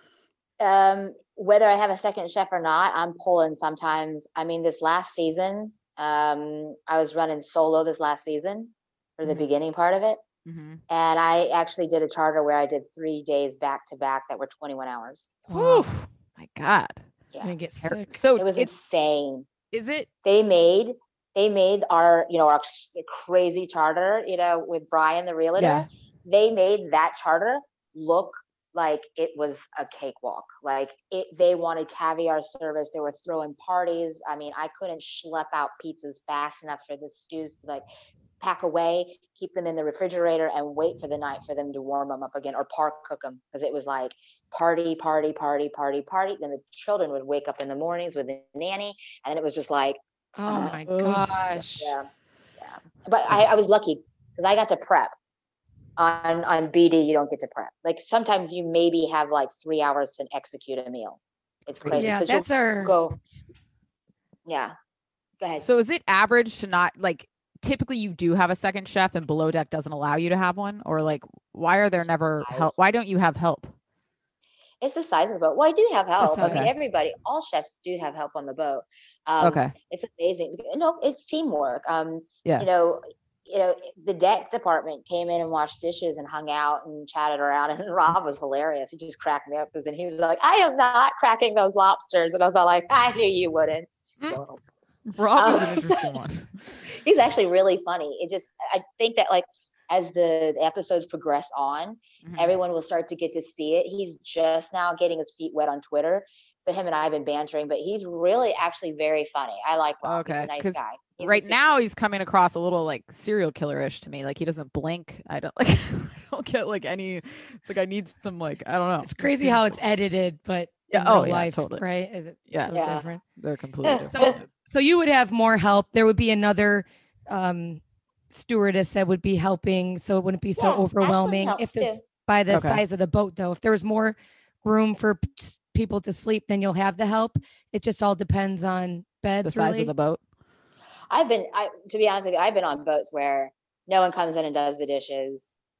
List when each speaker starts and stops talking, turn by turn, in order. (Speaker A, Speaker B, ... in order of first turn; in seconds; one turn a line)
Speaker A: 0.6-10.2
Speaker B: 10.4-10.8
Speaker A: 10.9-15.3
Speaker C: 15.5-15.9
Speaker B: 15.5-17.0
Speaker C: 17.4-18.2
Speaker B: 17.8-18.7
Speaker A: 18.4-19.5
Speaker B: 19.7-20.1
Speaker A: 20.2-37.8
Speaker B: 25.6-25.9
Speaker A: 38.4-50.8
Speaker C: 50.4-51.9
Speaker B: 50.9-51.4
Speaker A: 51.5-52.1
Speaker A: 52.6-55.1
Speaker A: 56.0-63.2
Speaker B: 61.8-62.1
Speaker C: 61.9-62.9
Speaker A: 64.5-64.7
Speaker B: 65.6-73.7
Speaker A: 72.4-72.7
Speaker A: 74.8-94.6
Speaker C: 76.2-76.7
Speaker B: 76.4-76.7
Speaker B: 79.4-79.7
Speaker B: 95.1-96.5
Speaker A: 95.3-96.1
Speaker A: 96.9-111.6
Speaker B: 102.2-102.5
Speaker B: 110.0-119.8
Speaker C: 119.0-123.2
Speaker B: 120.9-121.8
Speaker B: 122.5-122.8
Speaker A: 122.7-123.1
Speaker B: 123.3-124.3
Speaker A: 123.8-124.4
Speaker C: 124.0-139.9
Speaker A: 130.6-132.0
Speaker B: 132.5-132.8
Speaker B: 139.4-140.2
Speaker A: 141.1-145.5